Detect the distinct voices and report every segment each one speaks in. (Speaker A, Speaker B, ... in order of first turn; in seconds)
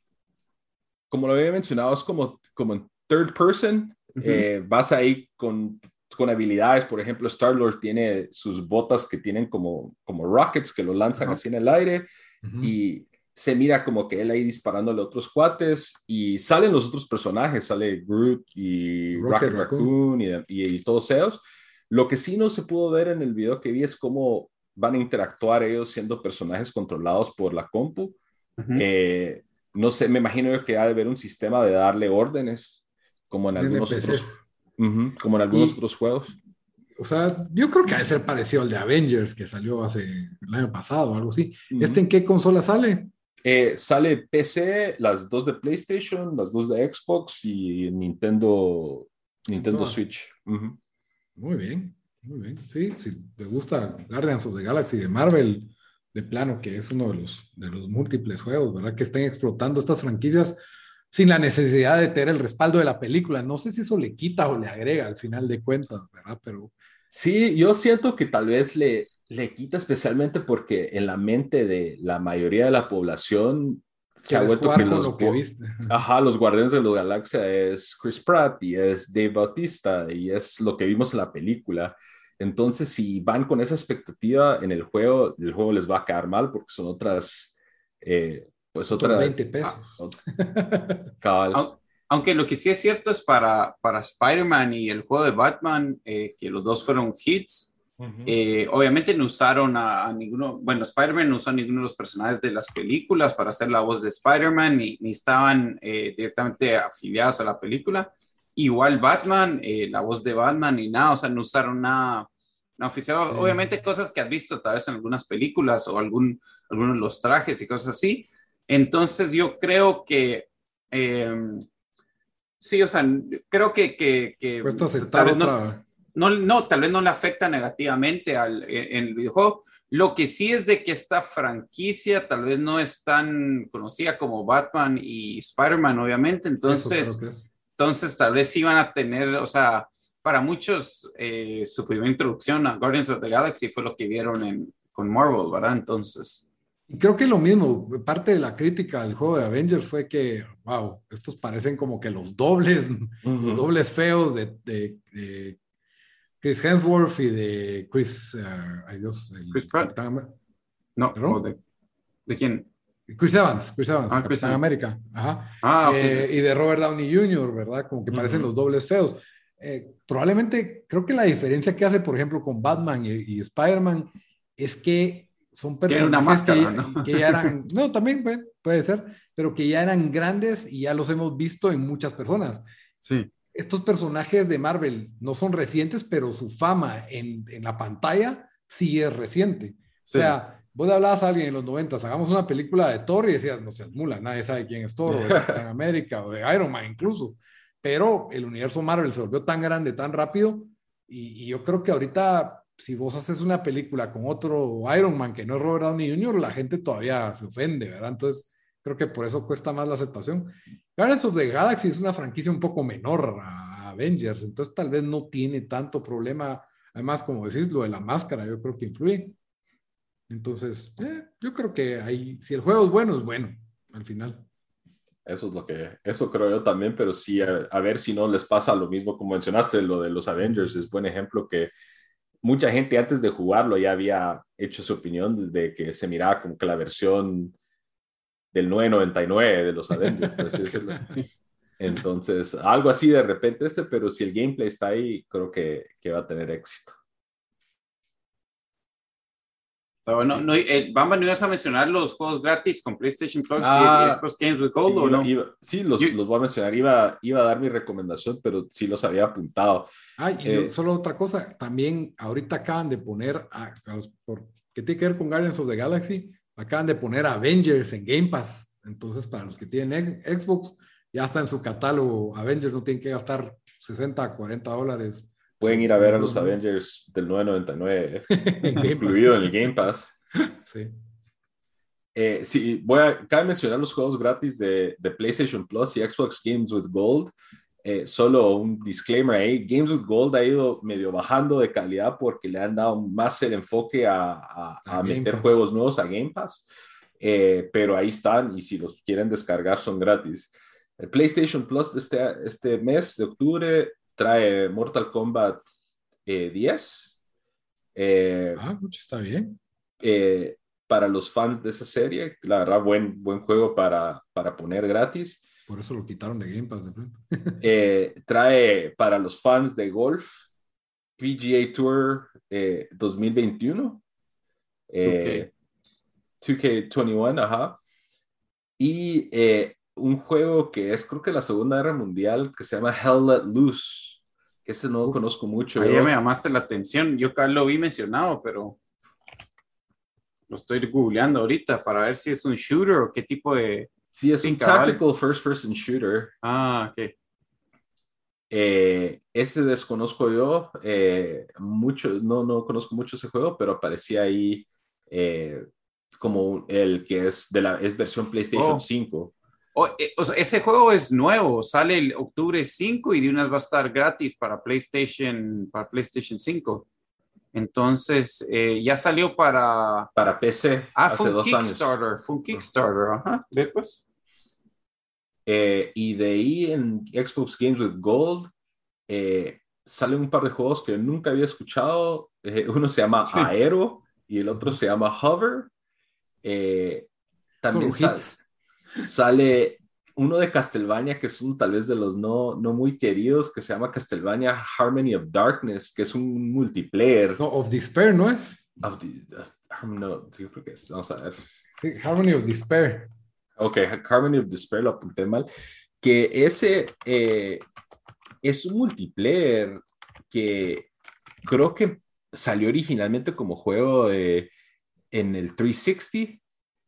Speaker A: 1.1-12.1, 12.6-28.2, 28.7-36.3, 41.7-42.0, 43.4-50.8, 67.1-89.4, 91.2-91.6, 98.0-98.3, 153.2-153.6, 195.2-195.6, 225.2-231.7, 232.4-237.6, 238.5-241.2, 241.8-247.0, 253.6-254.2, 254.8-259.9, 260.4-260.7, 275.6-280.1, 282.1-296.6, 297.2-305.6, 306.2-307.1, 307.9-308.6, 310.0-315.4, 317.6-320.4, 321.2-324.0, 324.9-325.5, 326.4-327.8, 328.8-336.1, 344.1-346.3, 348.5-355.6, 356.2-359.3, 370.1-371.9, 375.4-378.5, 379.1-385.7, 386.4-387.1, 387.6-388.3, 389.0-397.4, 398.8-401.4, 403.6-405.5, 406.0-407.6, 408.4-410.9, 411.4-414.5, 415.1-416.4
Speaker B: 12.4-12.7, 19.1-19.9, 33.5-34.4, 35.5-35.8, 37.0-43.1, 49.5-50.0, 51.4-60.6, 61.1-66.7, 74.3-75.9, 88.9-91.1, 113.2-113.6, 124.6-125.8, 136.7-137.4, 146.9-155.6, 156.4-160.3, 161.1-161.4, 163.1-182.6, 183.5-219.3, 220.3-224.4, 260.2-276.6, 278.3-279.5, 280.6-280.9, 294.8-295.6, 308.6-309.6, 315.7-317.6, 387.7-388.4, 397.4-398.6, 401.8-403.1
Speaker C: 28.6-28.8, 91.5-97.7, 98.2-121.7, 122.6-125.5, 126.1-137.2, 137.8-146.4, 159.5-159.9, 161.0-161.6, 162.2-162.7, 164.1-164.6, 165.6-166.3, 168.1-168.5, 175.9-177.5, 183.0-183.3, 190.1-190.4, 250.1-255.3, 325.0-325.4, 335.8-338.8, 340.5-345.0, 346.4-347.1, 358.5-358.8, 359.7-366.9, 367.5-370.1, 370.9-374.0, 383.2-383.5